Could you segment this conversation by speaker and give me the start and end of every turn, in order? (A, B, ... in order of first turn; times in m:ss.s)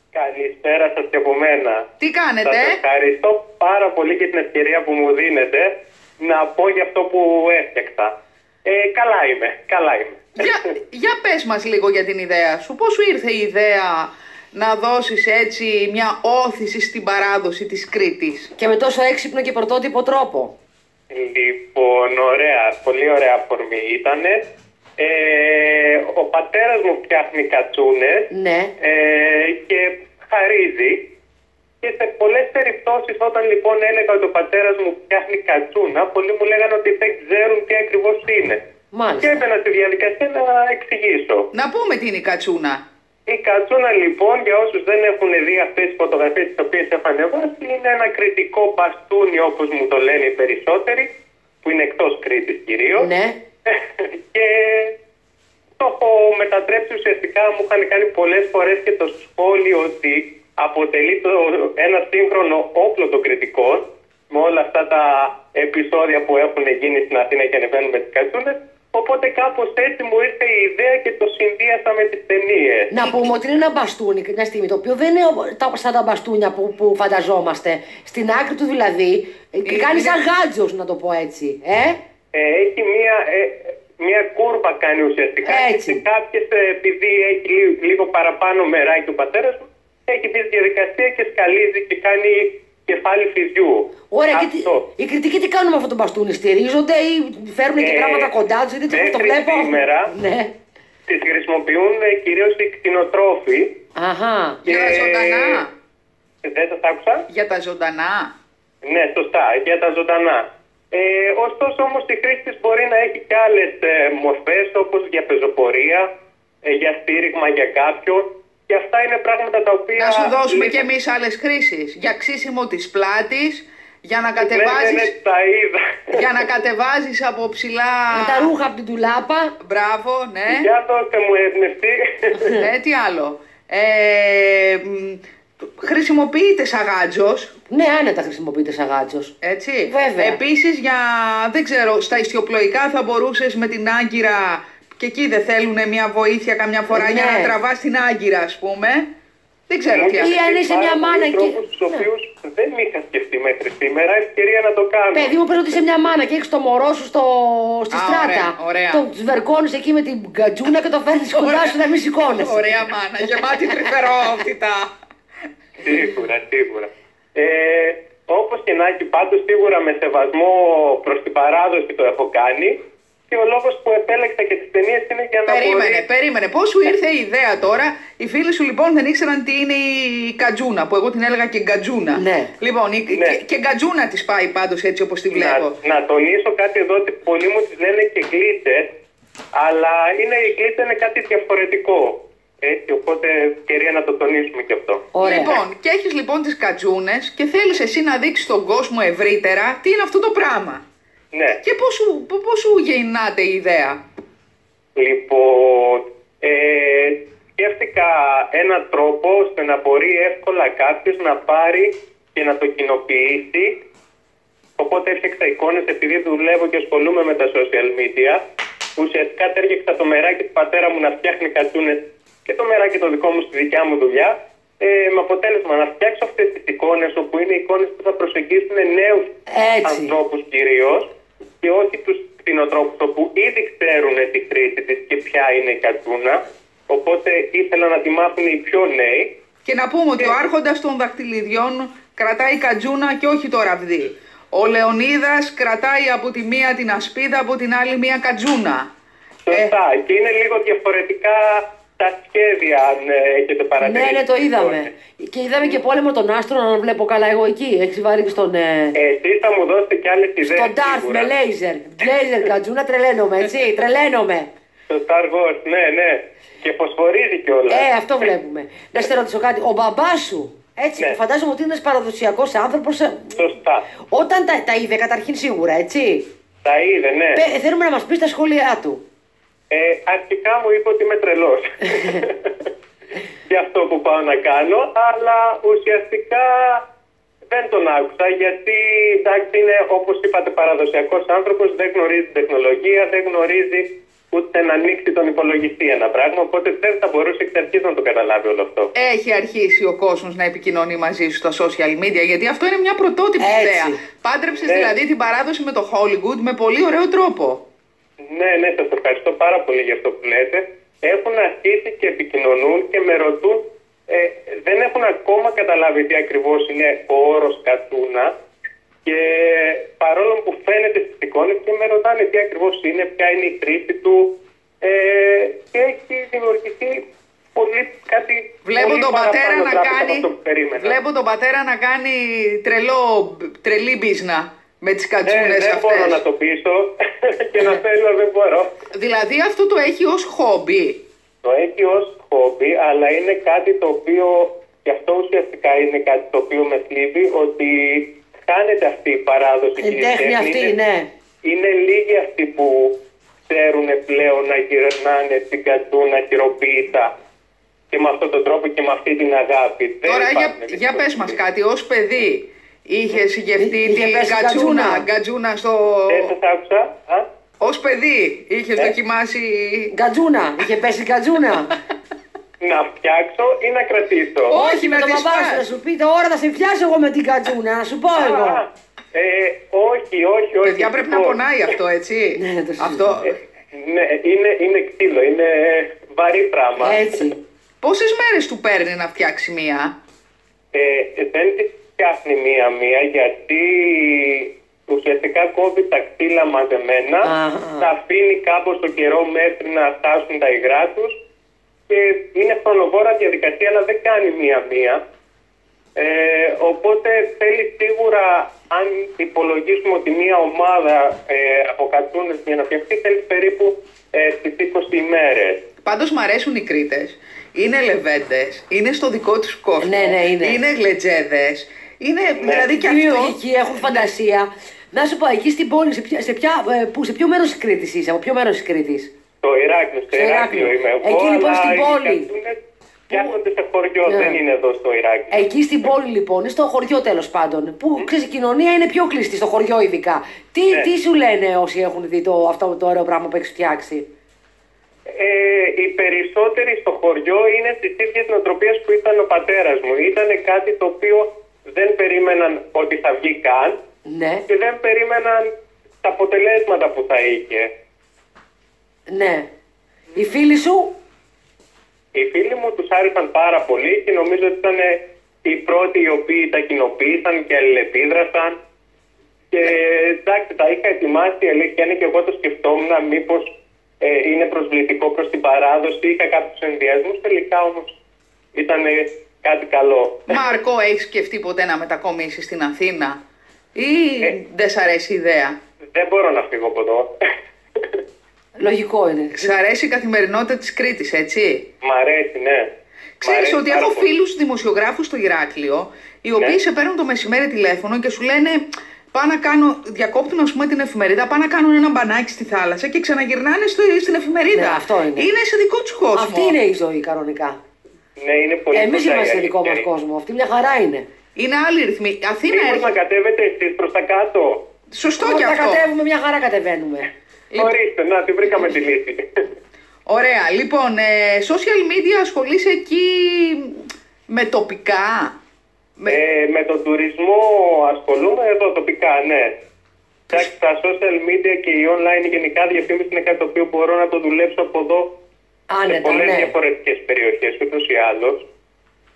0:00.1-0:01.8 A
0:02.0-0:02.8 B
0:02.4-0:08.1 A
0:08.6-0:10.5 A
0:10.4-0:18.5 B
0:18.6-0:20.5 C
0:21.1-0:24.4 A
0:25.0-0:28.3 A
0:28.3-0:28.7 C
0:28.8-0:31.0 A
0:31.8-0:38.6 A
0:38.9-0:39.5 C
0:39.1-0:41.5 A
0:41.5-0:42.8 B
0:43.3-0:51.1 A
0:51.6-0:53.1 A
0:52.9-0:53.4 C
0:53.7-0:54.9 A
0:55.8-1:12.9 A
1:12.9-1:22.0 C
1:13.0-1:13.3 B
1:19.6-1:20.2 B
1:22.3-1:34.8 A
1:25.4-1:26.0 C
1:34.1-1:40.5 C
1:37.8-1:38.3 A
1:38.9-1:40.1 A
1:41.1-1:43.7 A
1:44.0-1:44.6 C
1:44.6-1:45.6 A
1:44.6-1:45.7 B
1:46.4-1:47.2 A
1:47.3-1:48.3 B
1:48.8-1:56.1 A
1:56.6-2:00.8 A
2:00.0-2:05.1 B
2:04.4-2:06.5 A
2:06.1-2:08.5 B
2:08.1-2:09.5 C
2:09.6-2:10.7 B
2:10.5-2:12.6 A
2:12.5-2:17.5 B
2:17.7-2:19.3 C
2:19.4-2:29.1 B
2:19.9-2:20.4 C
2:26.9-2:27.5 C
2:29.7-2:30.3 B
2:29.9-2:35.3 A
2:30.1-2:32.1 C
2:35.1-2:42.8 C
2:37.9-2:39.0 B
2:41.3-2:41.7 B
2:42.3-2:44.9 B
2:45.8-2:52.8 A
2:53.3-2:56.0 A
2:55.5-3:05.8 B
3:02.1-3:02.5 C
3:03.1-3:03.4 A
3:05.3-3:08.9 A
3:09.5-3:15.0 A
3:15.1-3:15.6 C
3:15.2-3:20.8 B
3:21.3-3:21.6 A
3:21.6-3:24.0 B
3:25.0-3:33.8 A
3:34.8-3:38.4 A
3:39.0-3:49.3 A
3:49.5-3:50.1 C
3:49.8-3:51.1 A
3:51.6-3:59.3 A
3:59.6-4:08.9 B
4:09.4-4:14.9 A
4:13.8-4:19.0 C
4:18.9-4:21.3 A
4:20.4-4:24.5 C
4:24.9-4:27.9 A
4:27.7-4:33.4 C
4:33.3-4:33.8 A
4:34.1-4:36.2 C
4:36.6-4:37.4 A
4:37.3-4:39.0 C
4:39.7-4:42.6 A
4:43.5-4:46.8 A
4:47.5-4:58.9 A
4:58.9-5:07.6 B
5:03.4-5:04.0 C
5:04.5-5:05.0 A
5:08.2-5:18.3 A
5:19.0-5:24.3 A
5:24.8-5:27.0 A
5:27.6-5:31.0 A
5:28.6-5:36.2 B
5:35.2-5:38.7 A
5:38.9-5:41.0 B
5:41.4-5:50.8 A
5:49.8-5:51.1 C
5:51.4-5:52.9 A
5:53.5-5:57.1 A
5:57.9-6:01.4 A
6:00.0-6:06.3 B
6:03.6-6:05.0 C
6:06.1-6:07.2 A
6:07.6-6:09.9 B
6:09.9-6:11.8 C
6:12.6-6:14.6 A
6:14.5-6:15.7 B
6:14.5-6:18.6 C
6:18.1-6:21.4 A
6:20.6-6:23.3 B
6:22.3-6:23.2 C
6:23.2-6:27.0 A
6:26.8-6:27.4 C
6:27.8-6:29.9 B
6:30.7-6:41.2 A
6:37.2-6:37.9 C
6:41.9-6:45.0 A
6:46.0-6:55.6 A
6:55.8-7:04.1 B
6:59.8-7:00.6 C
7:02.3-7:02.7 A
7:02.5-7:09.1 C
7:09.4-7:12.6 A
7:10.1-7:12.3 C
7:13.1-7:15.5 A
7:13.1-7:13.4 B
7:14.0-7:14.4 C
7:15.3-7:24.0 C
7:25.2-7:33.8 A
7:34.0-7:34.4 C
7:34.5-7:35.5 A
7:36.0-7:37.7 A
7:39.1-7:39.5 C
7:40.1-7:40.9 C
7:42.1-7:48.6 A
7:49.5-7:53.5 A
7:54.0-7:58.0 A
7:58.5-8:00.4 A
8:00.3-8:03.2 B
8:03.7-8:05.6 B
8:05.9-8:07.1 A
8:08.6-8:09.5 C
8:09.3-8:11.6 B
8:11.8-8:12.6 A
8:13.2-8:26.6 B
8:13.2-8:14.1 A
8:24.5-8:25.3 C
8:26.1-8:27.6 C
8:28.2-8:29.8 A
8:28.7-8:31.0 C
8:31.4-8:32.9 B
8:32.5-8:34.6 A
8:34.9-8:35.8 B
8:35.2-8:37.1 C
8:37.5-8:39.2 A
8:40.0-8:45.3 B
8:46.1-8:49.5 A
8:50.3-8:55.1 A
8:55.7-8:56.5 C
8:55.8-8:58.4 A